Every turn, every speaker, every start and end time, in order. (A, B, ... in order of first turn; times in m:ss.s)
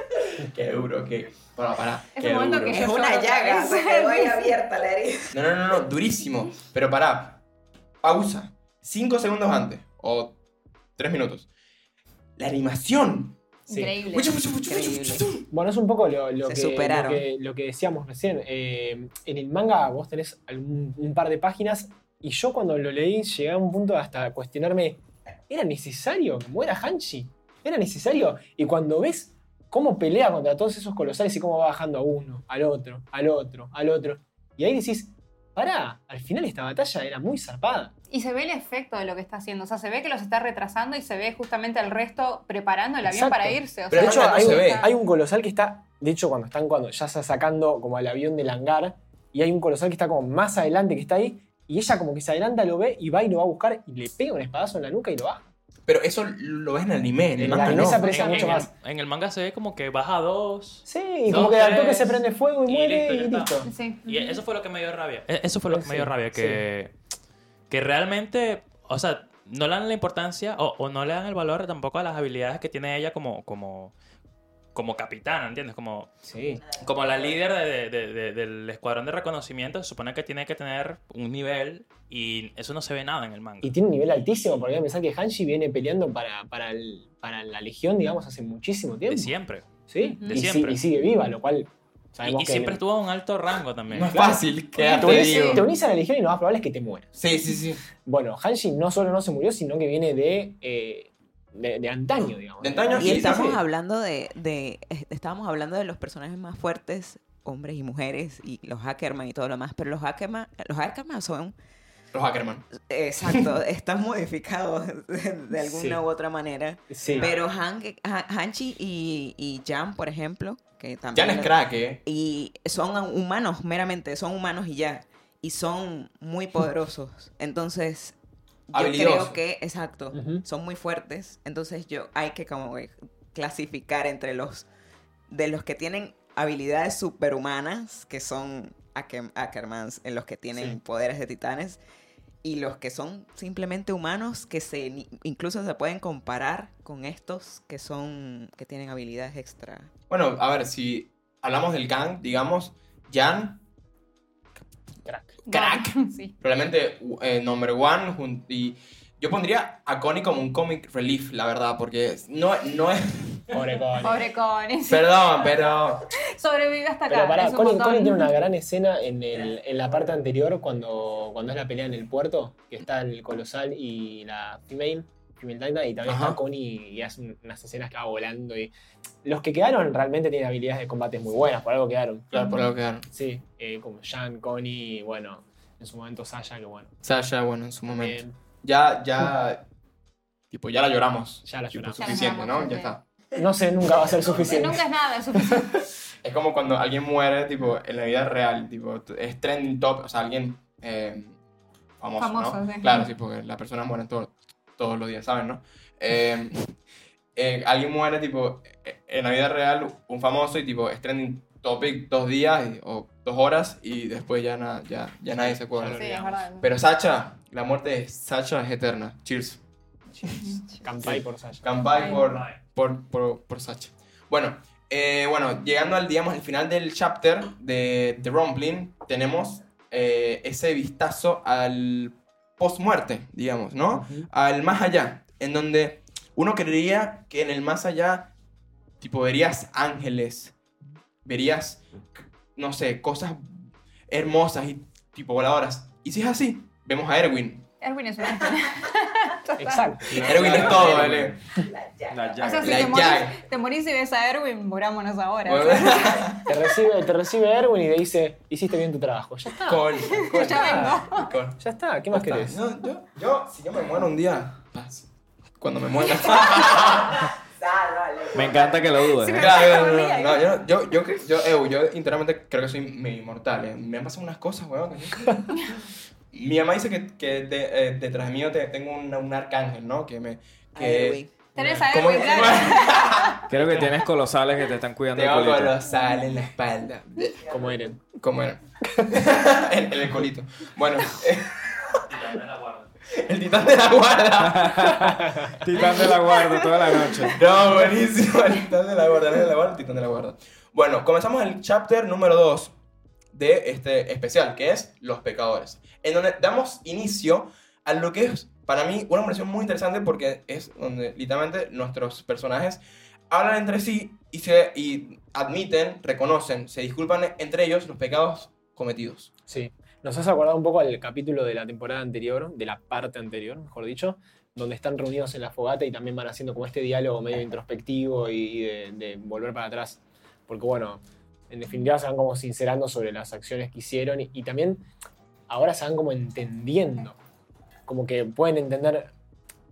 0:00.4-0:02.9 A
0:02.1-0:04.5 B
0:02.7-0:05.4 C
0:05.3-0:07.4 A
0:08.0-0:10.4 A
0:11.0-0:11.5 A
0:12.4-0:15.4 A
0:13.7-0:14.5 B
0:14.6-0:15.3 C
0:15.5-0:37.9 D
0:16.4-0:17.2 C
0:38.1-0:44.9 B
0:43.0-0:55.5 D
0:43.9-0:44.9 A
0:55.9-0:58.1 A
0:57.4-0:58.7 D
0:57.6-1:07.0 E
0:57.8-0:58.5 B
1:00.9-1:03.7 D
1:03.6-1:04.4 B
1:05.7-1:06.6 D
1:07.7-1:13.9 E
1:14.8-1:16.1 E
1:16.2-1:16.6 D
1:16.6-1:17.4 C
1:16.8-1:23.8 E
1:23.6-1:29.3 D
1:29.1-1:29.7 E
1:29.9-1:32.8 D
1:30.0-1:30.4 B
1:30.3-1:30.8 E
1:32.2-1:34.3 E
1:33.9-1:35.7 A
1:34.8-1:35.6 B
1:34.9-1:37.1 D
1:37.2-1:37.8 A
1:38.0-1:43.6 D
1:42.6-1:43.6 A
1:43.0-1:51.6 C
1:52.1-1:52.7 A
1:52.7-2:01.5 C
1:53.2-1:53.5 A
1:55.6-1:56.0 D
1:56.9-1:57.3 D
2:01.1-2:02.0 A
2:02.1-2:08.2 C
2:08.7-2:14.6 C
2:08.7-2:09.4 A
2:10.1-2:10.4 D
2:15.3-2:21.8 C
2:22.4-2:29.9 C
2:30.1-2:33.6 A
2:35.0-2:35.4 D
2:35.5-2:36.3 B
2:35.5-2:43.6 A
2:43.5-2:44.2 D
2:44.0-2:45.1 B
2:44.9-2:46.1 A
2:46.2-2:48.3 B
2:47.1-2:58.7 D
2:56.0-2:56.4 A
2:59.2-3:02.3 D
3:02.3-3:03.1 A
3:03.1-3:07.0 D
3:07.0-3:09.6 A
3:07.9-3:08.4 D
3:10.5-3:13.0 A
3:11.4-3:12.3 D
3:12.0-3:13.0 B
3:13.4-3:14.8 D
3:14.3-3:15.8 B
3:15.4-3:15.7 D
3:16.2-3:21.4 A
3:22.0-3:26.8 A
3:22.2-3:23.1 B
3:27.4-3:36.1 A
3:35.5-3:36.3 D
3:35.9-3:36.7 B
3:36.6-3:39.6 A
3:40.3-3:40.9 B
3:40.8-3:41.7 D
3:41.0-3:58.3 A
3:41.9-3:42.4 B
3:53.9-3:54.3 D
3:59.0-4:00.6 A
4:01.2-4:07.7 A
4:07.8-4:10.4 B
4:09.6-4:11.7 D
4:10.2-4:11.4 A
4:10.2-4:11.2 F
4:10.4-4:11.0 C
4:11.6-4:12.5 C
4:12.1-4:13.1 F
4:12.4-4:16.5 B
4:12.6-4:13.4 A
4:15.4-4:16.5 A
4:16.5-4:21.1 D
4:19.7-4:21.6 A
4:20.1-4:21.3 B
4:21.6-4:22.6 D
4:22.1-4:25.1 A
4:25.6-4:27.3 A
4:26.4-4:29.0 C
4:28.3-4:29.6 F
4:29.0-4:30.6 B
4:29.3-4:35.6 A
4:36.3-4:41.2 A
4:40.8-4:41.4 C
4:41.6-4:43.5 B
4:41.8-4:44.0 A
4:43.5-4:45.8 F
4:45.1-4:47.4 A
4:47.4-4:47.8 C
4:47.5-4:48.0 D
4:48.2-4:52.0 A
4:52.0-4:52.9 E
4:53.1-4:55.2 A
4:54.5-4:57.4 F
4:55.8-4:57.4 B
4:57.3-5:02.7 A
5:03.3-5:19.3 A
5:19.5-5:34.9 D
5:35.5-5:37.2 D
5:37.9-5:39.1 D